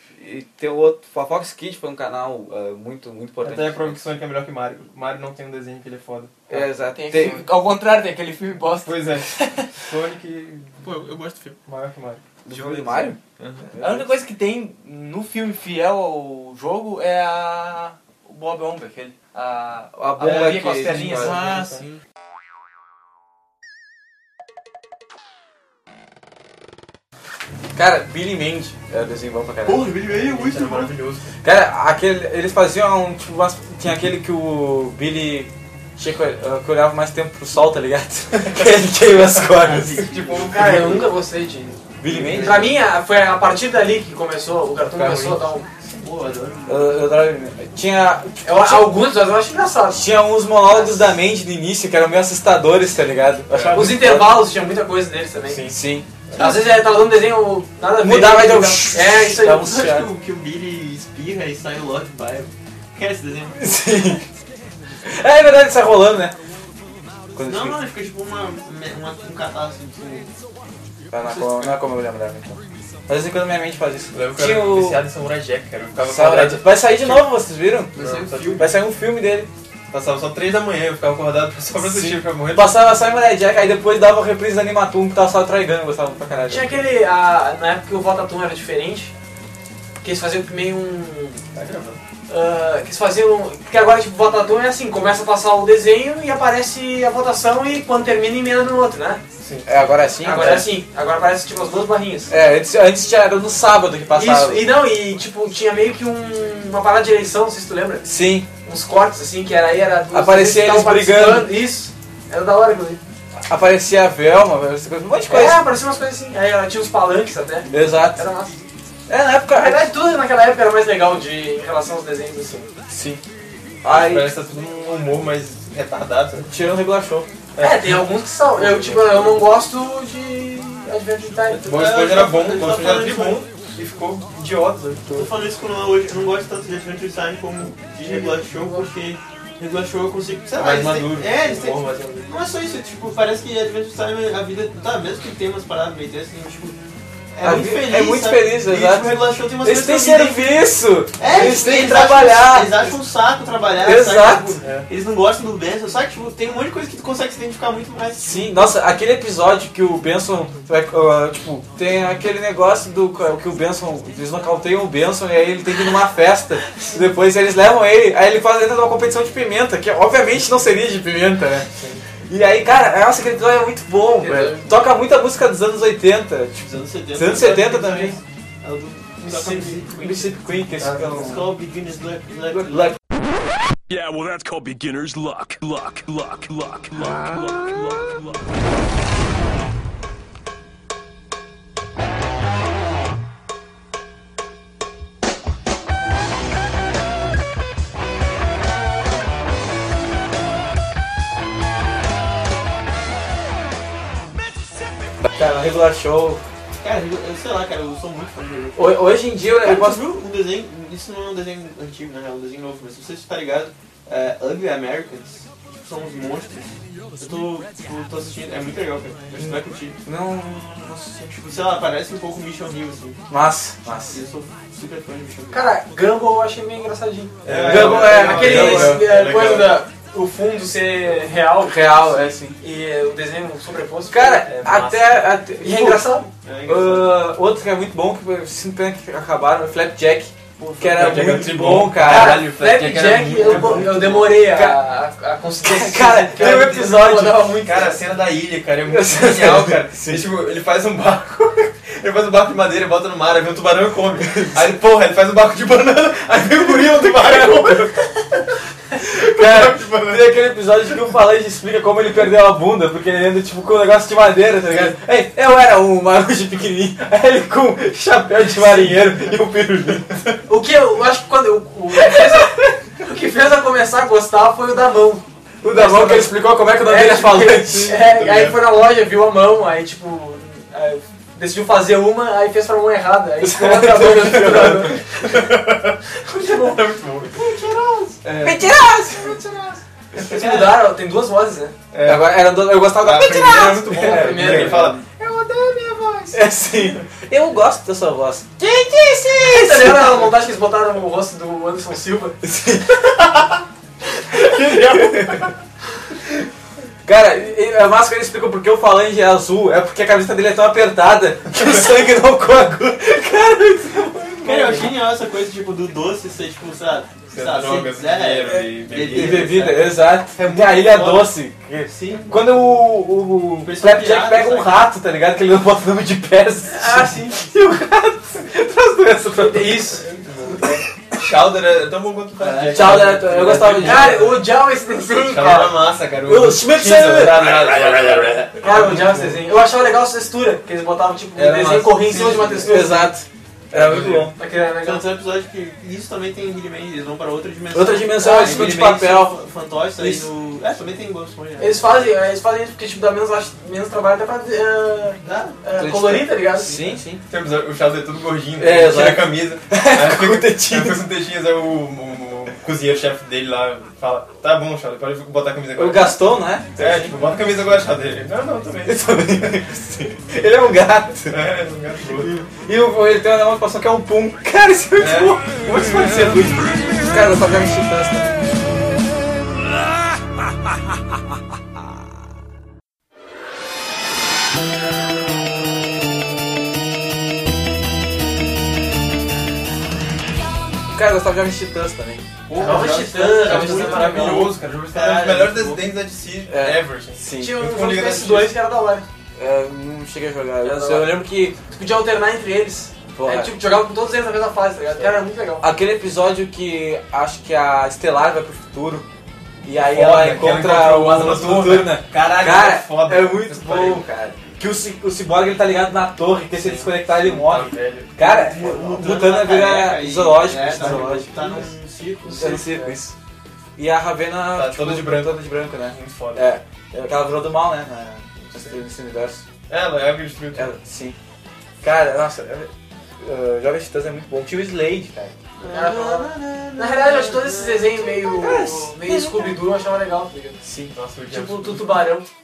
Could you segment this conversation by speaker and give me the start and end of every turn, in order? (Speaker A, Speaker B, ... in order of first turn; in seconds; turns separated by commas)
Speaker A: 0.2-4.0, Speaker B: 3.4-6.6, Speaker A: 6.5-7.5, Speaker C: 6.9-9.7, Speaker B: 8.8-11.0, Speaker D: 10.8-11.6, Speaker B: 11.7-12.2, Speaker A: 12.4-13.2, Speaker D: 12.5-13.7, Speaker A: 13.7-14.1, Speaker C: 13.8-21.4, Speaker A: 19.9-21.4, Speaker B: 20.2-21.9, Speaker D: 20.9-22.0, Speaker A: 27.8-29.9, Speaker D: 29.6-30.9, Speaker B: 30.0-31.3, Speaker A: 31.4-40.1, Speaker D: 39.5-40.8, Speaker B: 39.6-41.1, Speaker C: 40.4-41.8, Speaker A: 42.0-42.8, Speaker B: 42.1-42.7, Speaker C: 42.3-45.7, Speaker B: 44.9-45.4, Speaker D: 45.8-47.0, Speaker A: 46.7-49.0, Speaker C: 48.4-51.1, Speaker A: 49.9-54.5, Speaker B: 53.5-54.1, Speaker C: 53.7-55.7, Speaker B: 55.5-55.7, Speaker A: 55.6-56.1, Speaker B: 56.3-56.5, Speaker C: 56.4-59.7, Speaker A: 58.0-60.1, Speaker D: 59.4-63.7, Speaker A: 63.5-64.3, Speaker A: 65.0-66.4, Speaker A: 67.3-67.8, Speaker D: 67.4-70.3, Speaker A: 71.1-75.0, Speaker D: 71.2-71.8, Speaker B: 74.1-77.3, Speaker A: 76.0-78.0, Speaker D: 78.0-78.7, Speaker B: 78.0-78.7, Speaker A: 78.5-79.5, Speaker B: 79.9-82.8, Speaker A: 81.8-86.8, Speaker C: 86.5-89.1, Speaker C: 90.0-91.4, Speaker B: 91.5-92.0, Speaker C: 92.3-99.2, Speaker B: 99.4-99.7, Speaker A: 99.7-100.7, Speaker C: 100.2-102.3, Speaker B: 100.2-100.7, Speaker A: 102.3-104.6, Speaker C: 104.1-108.1, Speaker A: 108.0-108.5, Speaker C: 108.6-113.0, Speaker A: 110.1-111.6, Speaker A: 113.4-115.6, Speaker C: 115.2-118.6, Speaker A: 117.7-118.2, Speaker A: 119.1-119.9, Speaker C: 119.5-122.7, Speaker A: 122.9-123.2, Speaker A: 123.8-124.4, Speaker B: 123.9-126.5, Speaker A: 126.5-127.3, Speaker B: 127.6-128.0, Speaker C: 127.6-131.9, Speaker B: 128.6-129.3, Speaker B: 131.5-135.2, Speaker D: 131.6-133.5, Speaker D: 135.1-146.8, Speaker C: 138.0-138.9, Speaker B: 140.5-142.4, Speaker D: 147.3-150.6, Speaker A: 147.4-152.9, Speaker D: 151.2-158.5, Speaker A: 153.8-154.6, Speaker B: 154.6-154.9, Speaker A: 158.2-171.7, Speaker B: 171.8-172.0, Speaker A: 172.3-178.2, Speaker C: 174.2-174.7, Speaker D: 176.6-180.4, Speaker C: 179.2-179.8, Speaker A: 179.9-181.5, Speaker B: 180.8-181.4, Speaker D: 181.0-183.0, Speaker A: 182.5-183.0, Speaker E: 183.9-188.4, Speaker A: 205.3-206.4, Speaker D: 206.8-220.0, Speaker A: 208.8-210.0, Speaker A: 219.3-221.5, Speaker D: 221.4-223.2, Speaker A: 223.3-224.2, Speaker D: 224.1-225.7, Speaker C: 225.5-232.0, Speaker B: 227.4-229.8, Speaker D: 227.4-228.2, Speaker A: 227.6-229.2, Speaker A: 231.6-232.6, Speaker C: 232.6-234.5, Speaker A: 234.1-242.5, Speaker B: 234.4-235.2, Speaker C: 235.6-236.3, Speaker D: 236.4-237.2, Speaker D: 240.6-241.5, Speaker B: 240.8-244.4, Speaker C: 242.0-248.0, Speaker A: 243.4-244.8, Speaker A: 245.6-247.7, Speaker B: 246.4-246.9, Speaker B: 247.6-260.3, Speaker A: 248.9-250.3, Speaker A: 254.2-254.6, Speaker A: 256.6-257.9, Speaker A: 259.0-270.4, Speaker B: 268.6-269.3, Speaker C: 270.5-285.5, Speaker A: 271.9-272.8, Speaker A: 275.6-278.1, Speaker B: 277.9-278.6, Speaker A: 283.4-285.0, Speaker B: 285.2-287.4, Speaker C: 286.1-288.2, Speaker B: 288.2-288.7, Speaker A: 288.4-289.4, Speaker C: 289.1-291.8, Speaker B: 290.1-290.7, Speaker B: 291.9-295.0, Speaker A: 292.0-295.1, Speaker C: 293.5-296.4, Speaker A: 296.3-300.3, Speaker C: 299.4-302.4, Speaker A: 302.4-303.2, Speaker A: 304.3-305.5, Speaker A: 307.1-314.9, Speaker D: 314.4-321.3, Speaker B: 314.5-314.9, Speaker B: 317.3-319.8, Speaker A: 319.1-330.0, Speaker D: 321.9-322.4, Speaker D: 323.6-324.9, Speaker C: 326.7-327.5, Speaker C: 329.4-330.1, Speaker B: 330.0-334.5, Speaker D: 332.4-333.7, Speaker A: 332.7-334.4, Speaker C: 333.7-335.8, Speaker B: 335.0-339.4, Speaker A: 336.2-337.9, Speaker C: 338.6-343.1, Speaker B: 341.4-342.9, Speaker A: 342.6-344.4, Speaker B: 343.7-344.3, Speaker C: 344.4-345.1, Speaker D: 344.7-352.1, Speaker A: 347.7-349.4, Speaker C: 348.2-348.8, Speaker A: 350.0-350.3, Speaker C: 351.6-357.0, Speaker D: 355.2-355.6, Speaker A: 355.8-357.2, Speaker B: 357.3-369.6, Speaker A: 358.6-361.0, Speaker A: 365.8-367.2, Speaker A: 368.9-371.4, Speaker B: 371.3-372.4, Speaker A: 372.0-378.6, Speaker B: 375.0-375.4, Speaker A: 390.9-392.3, Speaker D: 392.5-395.9, Speaker B: 392.5-398.6, Speaker C: 392.6-394.5, Speaker A: 393.5-394.5, Speaker A: 396.5-397.6, Speaker C: 397.4-399.1, Speaker A: 399.4-401.6, Speaker C: 400.6-405.7, Speaker A: 403.1-403.5, Speaker A: 405.6-409.1, Speaker A: 409.6-421.6, Speaker B: 409.8-414.0, Speaker B: 416.5-419.1, Speaker D: 418.3-422.7, Speaker B: 420.7-421.7, Speaker A: 422.3-423.1, Speaker B: 422.4-422.9, Speaker A: 423.8-429.4, Speaker B: 424.5-426.5, Speaker B: 428.5-428.8, Speaker B: 429.7-430.7, Speaker A: 430.6-431.2, Speaker A: 431.8-435.4, Speaker D: 435.6-438.3, Speaker C: 435.7-440.6, Speaker A: 438.3-439.6, Speaker A: 440.6-440.9, Speaker B: 440.9-441.9, Speaker C: 441.3-442.3